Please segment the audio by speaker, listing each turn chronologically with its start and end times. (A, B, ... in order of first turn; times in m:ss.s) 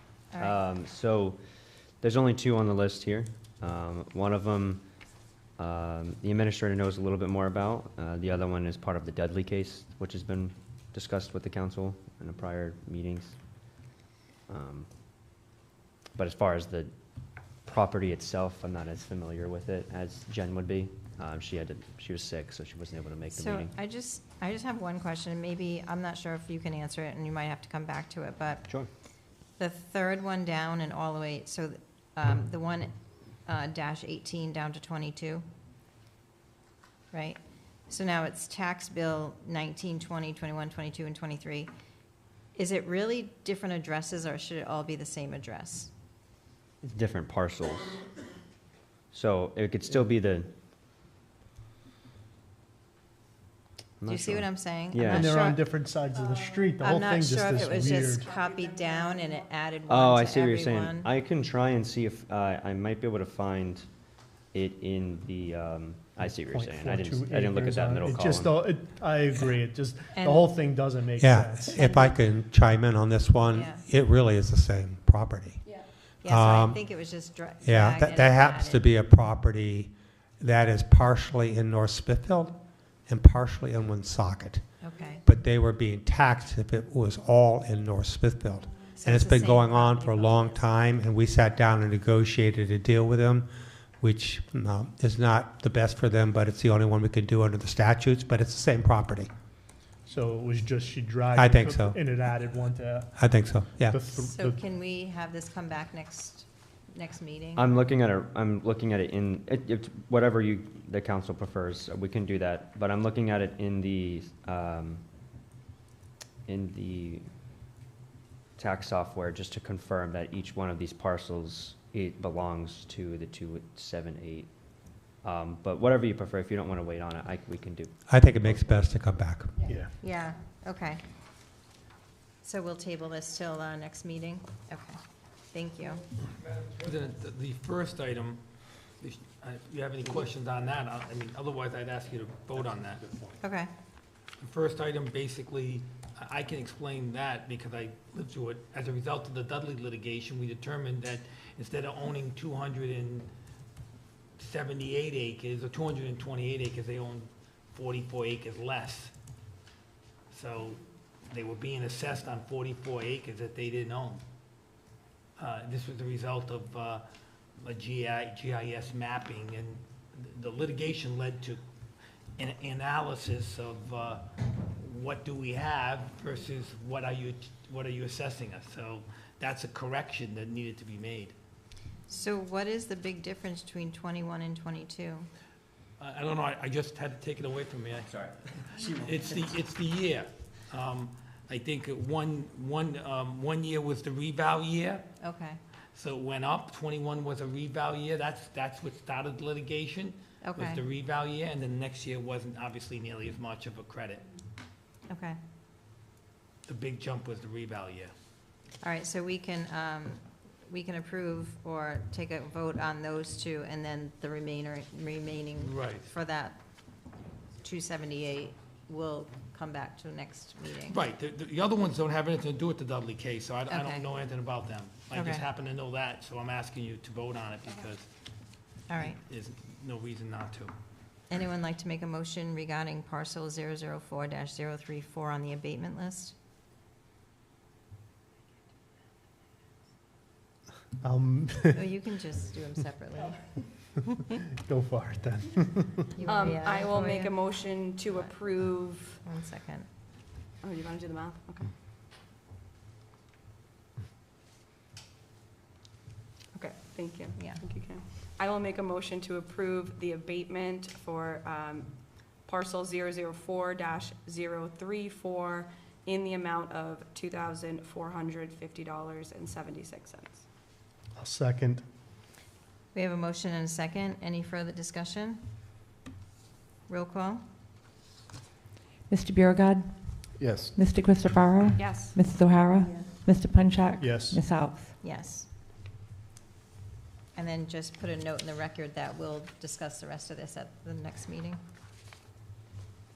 0:00.3-0:01.4 A
0:02.0-0:04.8 A
0:05.6-0:13.4 A
0:14.5-0:14.9 A
0:16.2-0:16.9 A
0:17.6-0:23.7 A
0:23.3-0:28.6 B
0:29.6-0:32.9 B
0:33.4-0:35.4 B
0:37.1-0:41.7 B
0:42.5-0:45.9 B
0:46.8-0:48.0 A
0:49.1-0:50.5 A
0:54.0-0:55.4 A
0:54.1-0:55.6 B
0:55.0-0:58.3 C
0:56.8-1:01.1 B
0:59.9-1:03.9 A
1:04.5-1:08.5 A
1:06.2-1:11.8 C
1:10.1-1:10.5 B
1:11.2-1:15.6 D
1:11.8-1:12.2 B
1:13.5-1:13.8 B
1:16.2-1:18.9 B
1:16.2-1:16.8 D
1:17.6-1:24.6 D
1:24.8-1:25.2 B
1:25.2-1:39.3 D
1:29.0-1:30.6 B
1:40.0-1:44.6 C
1:41.4-1:42.0 D
1:43.2-1:44.0 D
1:44.1-1:47.7 B
1:47.6-1:55.0 A
1:56.5-1:57.2 A
1:58.6-2:04.5 A
2:05.2-2:08.9 A
2:08.1-2:09.5 D
2:09.6-2:09.9 C
2:10.0-2:11.0 B
2:12.4-2:15.0 B
2:15.5-2:16.0 B
2:16.4-2:18.4 E
2:19.0-2:23.1 E
2:23.4-2:23.7 B
2:24.4-2:33.3 E
2:34.4-2:39.1 E
2:40.3-2:44.2 E
2:45.4-2:47.0 E
2:47.6-2:51.6 E
2:52.4-2:54.2 E
2:54.8-3:01.3 E
3:02.1-3:05.3 B
3:06.0-3:15.1 E
3:15.2-3:15.6 B
3:15.9-3:24.2 E
3:20.4-3:20.8 B
3:25.1-3:25.4 B
3:26.6-3:28.1 E
3:28.8-3:36.6 B
3:35.6-3:36.1 E
3:37.6-3:41.0 B
3:40.9-3:48.0 E
3:43.7-3:44.1 B
3:45.1-3:45.4 B
3:48.9-3:49.2 B
3:49.0-3:50.7 E
3:51.3-3:56.3 B
4:01.0-4:01.9 C
4:01.7-4:03.6 B
4:04.6-4:06.2 C
4:06.2-4:08.3 B
4:06.2-4:09.2 F
4:09.2-4:09.9 B
4:10.6-4:11.7 F
4:16.5-4:30.4 F
4:17.3-4:17.6 B
4:31.1-4:31.8 C
4:32.9-4:35.4 B
4:36.9-4:37.4 B
4:39.1-4:44.9 G
4:40.4-4:40.7 C
4:41.8-4:42.2 F
4:42.8-4:43.1 F
4:44.0-4:44.4 C
4:45.0-4:45.5 B
4:47.3-4:51.6 B